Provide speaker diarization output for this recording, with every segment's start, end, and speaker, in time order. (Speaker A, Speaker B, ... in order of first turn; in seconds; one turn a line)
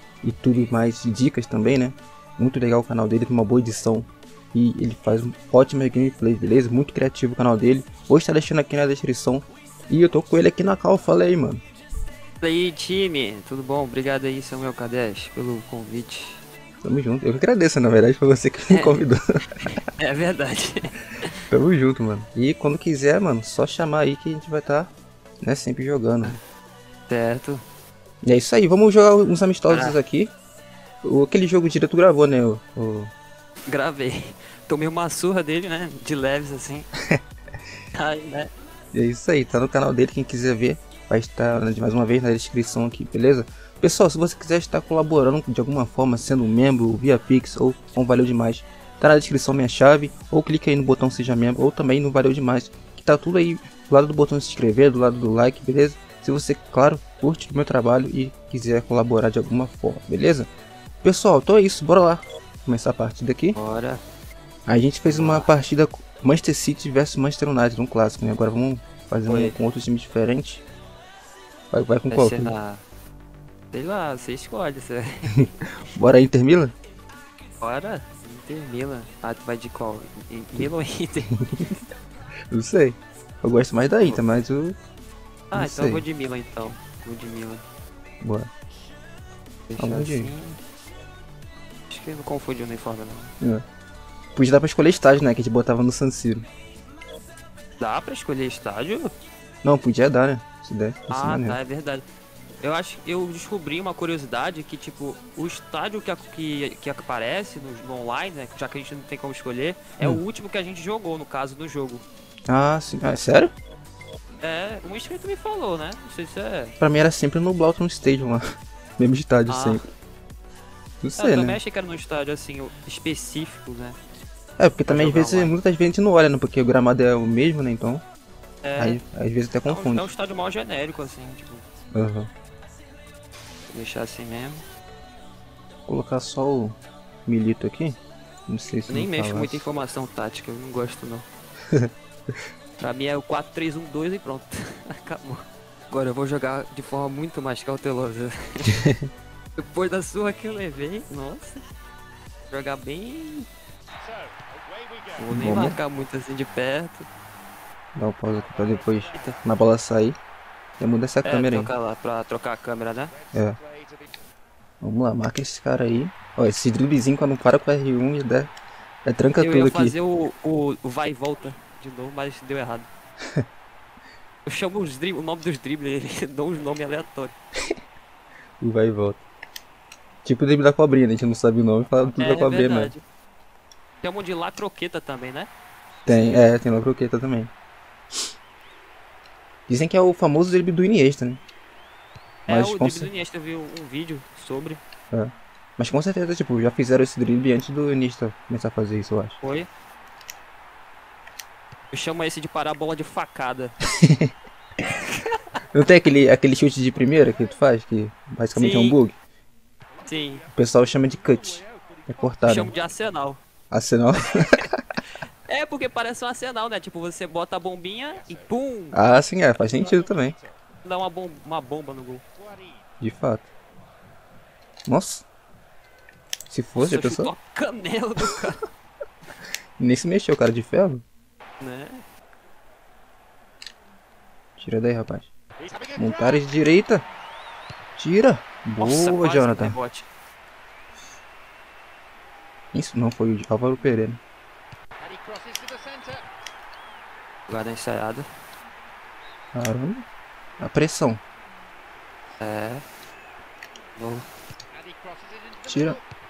Speaker A: 0.2-11.6
Speaker B: 12.4-16.4
Speaker A: 16.8-19.8
Speaker B: 18.7-19.0
Speaker B: 19.6-21.3
Speaker A: 21.5-26.4
Speaker B: 27.1-27.6
Speaker A: 28.2-30.3
Speaker B: 29.7-30.0
Speaker A: 31.0-33.1
Speaker B: 33.7-36.9
Speaker B: 37.9-38.5
Speaker A: 38.9-60.5
Speaker A: 61.0-63.6
Speaker B: 63.5-64.0
Speaker A: 64.7-70.6
Speaker B: 65.0-65.5
Speaker B: 69.3-69.5
Speaker A: 71.7-72.5
Speaker B: 72.1-72.8
Speaker B: 73.7-75.3
Speaker A: 75.3-76.7
Speaker B: 77.6-81.3
Speaker A: 82.5-84.8
Speaker B: 84.0-84.4
Speaker B: 85.5-87.6
Speaker A: 85.5-86.0
Speaker A: 88.2-88.5
Speaker B: 89.7-90.6
Speaker A: 89.8-90.3
Speaker B: 91.9-93.3
Speaker A: 94.3-96.5
Speaker B: 97.8-99.1
Speaker A: 99.6-101.6
Speaker B: 101.1-102.0
Speaker B: 102.6-112.0
Speaker A: 112.5-113.5
Speaker B: 114.4-116.7
Speaker A: 116.8-118.4
Speaker A: 119.0-119.9
Speaker B: 119.5-119.8
Speaker A: 121.0-121.6
Speaker B: 121.2-124.0
Speaker A: 124.6-128.0
Speaker B: 124.9-125.5
Speaker B: 128.6-129.0
Speaker A: 128.8-130.1
Speaker B: 129.6-131.6
Speaker A: 131.9-132.3
Speaker B: 133.7-134.6
Speaker A: 135.9-139.6
Speaker B: 138.9-141.3
Speaker B: 142.8-148.8
Speaker A: 148.7-149.1
Speaker B: 149.6-151.6
Speaker B: 152.5-153.5
Speaker B: 155.2-157.1
Speaker A: 155.3-155.8
Speaker A: 157.9-160.2
Speaker B: 159.1-159.4
Speaker A: 160.8-161.7
Speaker B: 161.2-163.1
Speaker A: 163.3-163.6
Speaker A: 164.8-168.5
Speaker A: 169.1-169.9
Speaker B: 169.4-172.9
Speaker B: 174.4-177.3
Speaker A: 178.6-179.2
Speaker A: 180.2-182.9
Speaker B: 182.0-183.0
Speaker B: 184.0-185.5
Speaker A: 186.1-187.5
Speaker A: 189.7-191.4
Speaker B: 192.5-194.8
Speaker A: 192.5-193.1
Speaker A: 195.1-199.4
Speaker B: 199.4-199.7
Speaker B: 201.9-203.8
Speaker A: 204.0-204.3
Speaker B: 204.9-205.2
Speaker A: 205.7-209.2
Speaker B: 208.5-209.0
Speaker B: 210.0-210.4
Speaker A: 210.5-212.7
Speaker B: 212.4-213.4
Speaker A: 213.7-214.8
Speaker B: 215.5-219.0
Speaker A: 218.9-220.4
Speaker B: 220.8-222.2
Speaker A: 223.0-223.5
Speaker A: 224.9-225.2
Speaker A: 226.5-227.3
Speaker B: 226.8-228.6
Speaker A: 229.8-231.0
Speaker B: 231.6-232.0
Speaker A: 234.6-235.3
Speaker A: 235.9-237.0
Speaker A: 238.0-239.8
Speaker B: 238.8-240.1
Speaker A: 242.7-244.2
Speaker B: 247.5-248.2
Speaker A: 249.5-250.0
Speaker A: 250.6-251.2
Speaker B: 252.4-252.8
Speaker B: 253.9-254.3
Speaker A: 255.6-256.0